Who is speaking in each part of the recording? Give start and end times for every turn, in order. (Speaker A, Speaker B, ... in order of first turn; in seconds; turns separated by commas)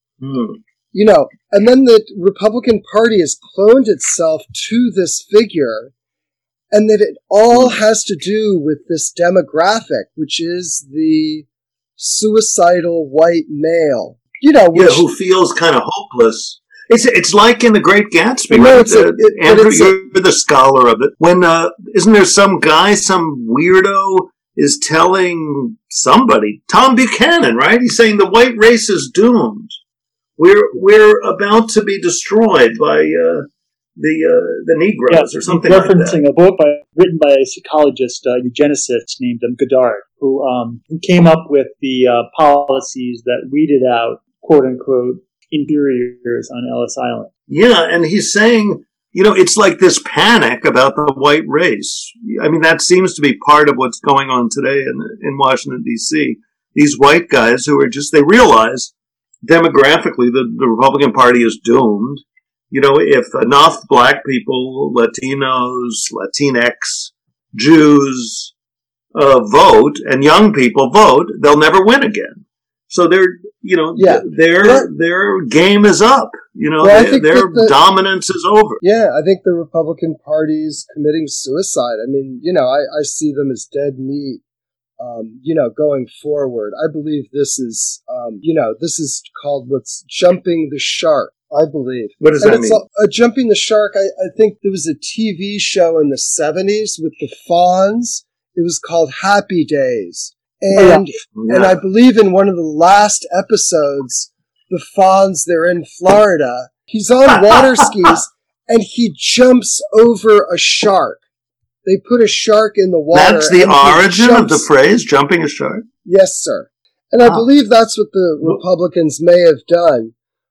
Speaker A: 0.2-0.6, Speaker B: 0.9-5.9, Speaker B: 6.7-15.0, Speaker A: 7.5-7.8, Speaker A: 14.7-29.8, Speaker B: 18.5-20.0, Speaker A: 30.4-33.4, Speaker A: 34.0-36.2, Speaker C: 35.1-47.3, Speaker A: 47.5-58.9, Speaker A: 59.4-68.5, Speaker A: 69.1-78.8, Speaker B: 74.0-74.9, Speaker B: 76.8-77.7, Speaker B: 78.8-84.4, Speaker B: 85.0-111.2, Speaker A: 92.2-92.8, Speaker C: 100.8-101.0, Speaker A: 101.3-101.8, Speaker A: 107.5-107.8, Speaker B: 111.8-114.7, Speaker A: 113.1-115.8, Speaker B: 116.0-120.1, Speaker A: 117.2-117.5